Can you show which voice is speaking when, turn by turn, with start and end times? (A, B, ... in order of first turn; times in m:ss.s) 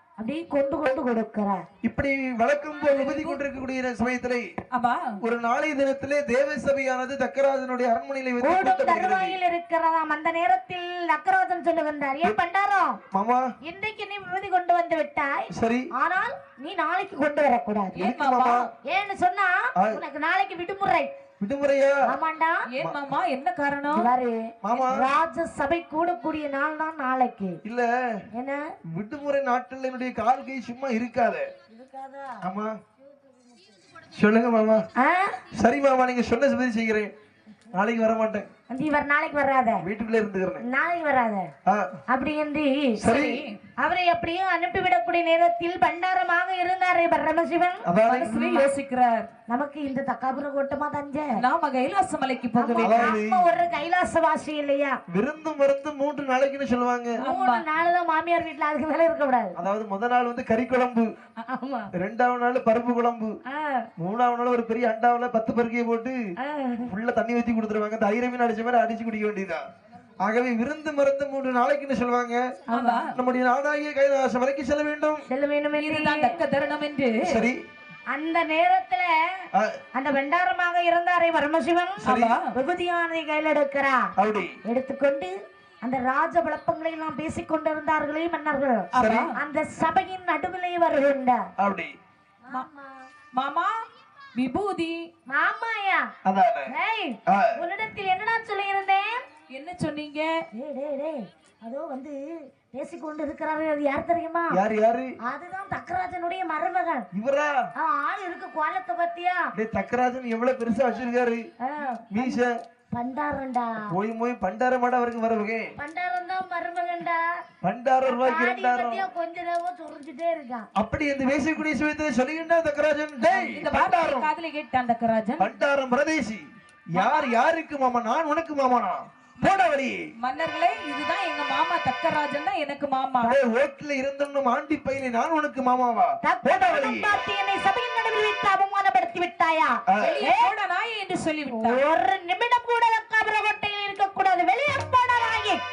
0:00.2-0:01.6 A
0:01.8-0:04.5 B
0:02.7-0:03.4 C
0:04.7-0:05.2 C
0:05.2-0:09.4 B
0:08.4-0:13.0 A
0:13.1-0:13.5 B
0:13.6-0:18.1 A
0:15.6-0:15.9 B
0:18.0-0:18.7 C
0:18.0-0:18.7 B
0:18.8-0:21.1 A
0:21.4-0:22.0 B
0:22.1-0:22.7 A
0:22.7-0:24.1 C
0:23.9-0:27.6 A
0:24.6-0:25.0 B
0:28.4-0:28.6 A
0:28.9-0:31.4 B
0:31.7-0:32.4 A
0:32.4-0:32.7 B
0:34.1-0:34.8 B
0:35.0-0:35.4 A
0:35.5-0:37.1 B
0:37.7-0:38.5 B
0:38.7-0:39.8 A
0:39.8-0:40.6 B
0:40.6-0:41.5 A
0:42.1-0:43.0 A
0:43.0-0:43.4 B
0:43.0-0:43.6 C
0:43.8-0:48.7 A
0:47.9-0:48.3 B
0:48.1-0:49.3 C
0:49.5-0:51.3 A
0:51.4-0:53.2 C
0:52.6-0:55.0 A
0:52.8-0:53.4 B
0:55.1-0:57.2 B
0:57.2-0:57.6 C
0:57.2-0:59.6 A
0:59.6-1:01.1 B
1:01.5-1:01.9 A
1:02.0-1:03.3 B
1:03.5-1:03.9 A
1:04.0-1:06.2 B
1:06.4-1:06.9 A
1:06.8-1:09.6 B
1:10.2-1:12.4 B
1:12.7-1:13.1 A
1:12.7-1:13.2 C
1:13.1-1:15.2 B
1:15.3-1:16.4 A
1:15.8-1:17.4 C
1:17.2-1:17.6 B
1:18.1-1:19.1 A
1:20.0-1:24.1 A
1:22.0-1:22.5 C
1:22.0-1:22.4 B
1:24.2-1:24.6 B
1:24.7-1:31.4 A
1:28.9-1:29.3 B
1:28.9-1:29.4 C
1:31.6-1:31.9 B
1:32.5-1:33.0 A
1:33.3-1:33.8 C
1:34.4-1:35.1 C
1:35.3-1:36.0 A
1:36.2-1:36.7 B
1:36.7-1:39.2 A
1:37.3-1:37.6 B
1:39.5-1:40.3 C
1:40.6-1:42.2 A
1:42.7-1:44.6 A
1:44.5-1:45.1 B
1:45.3-1:47.1 A
1:47.1-1:47.5 B
1:47.8-1:49.5 A
1:49.6-1:51.4 B
1:51.6-1:52.4 A
1:52.1-1:52.5 B
1:52.9-1:53.8 A
1:53.9-1:55.7 B
1:55.8-1:57.2 A
1:57.6-1:59.1 B
1:58.1-2:00.7 A
2:00.8-2:04.3 B
2:03.3-2:05.5 C
2:05.4-2:06.4 B
2:06.9-2:10.0 B
2:07.0-2:07.4 C
2:10.2-2:13.4 C
2:13.2-2:17.2 B
2:16.2-2:20.5 A
2:19.9-2:20.2 B
2:20.0-2:21.8 C
2:21.5-2:25.6 A